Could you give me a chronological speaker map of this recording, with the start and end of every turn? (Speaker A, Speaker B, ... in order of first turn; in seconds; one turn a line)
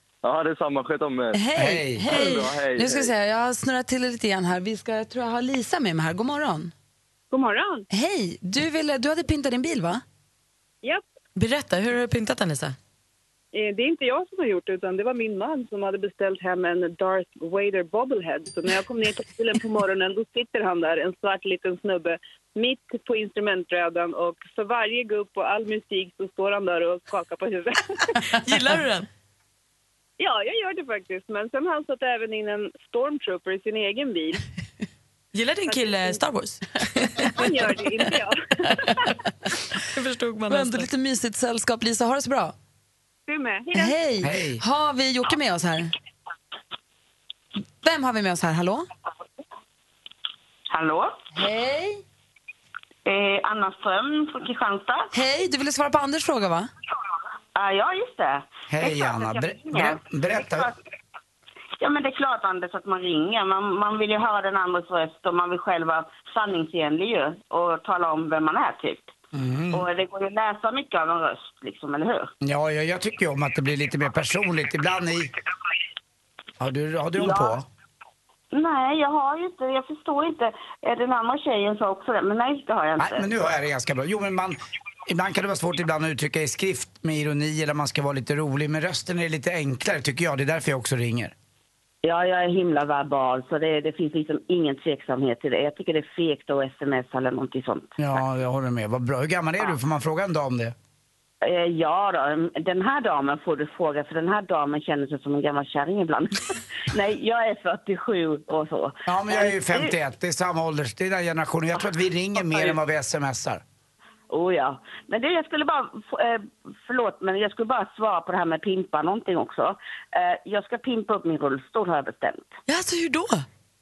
Speaker A: 0.2-1.4
Speaker B: 1.3-6.7
Speaker C: 1.6-2.0
Speaker A: 2.1-3.1
Speaker D: 7.3-7.8
Speaker B: 7.9-10.0
Speaker E: 11.4-12.8
Speaker D: 13.5-28.1
Speaker E: 28.2-29.1
Speaker D: 30.2-34.4
Speaker E: 35.3-37.9
Speaker D: 35.7-36.2
Speaker D: 37.3-39.1
Speaker E: 39.8-40.9
Speaker B: 40.5-42.5
Speaker D: 43.3-44.0
Speaker B: 43.7-45.9
Speaker C: 44.2-44.6
Speaker B: 47.8-48.9
Speaker F: 50.7-51.1
Speaker B: 51.3-52.0
Speaker F: 53.1-55.1
Speaker B: 55.1-56.7
Speaker F: 57.6-60.7
Speaker C: 58.7-60.7
Speaker F: 61.8-69.1
Speaker C: 69.3-69.8
Speaker F: 69.7-72.3
Speaker C: 72.4-75.3
Speaker C: 76.6-77.7
Speaker F: 77.2-77.6
Speaker F: 78.5-83.3
Speaker C: 83.0-91.3
Speaker F: 92.0-98.0
Speaker C: 98.0-100.8
Speaker F: 101.4-109.9
Speaker C: 109.1-113.6
Speaker F: 114.3-122.5
Speaker E: 122.7-123.5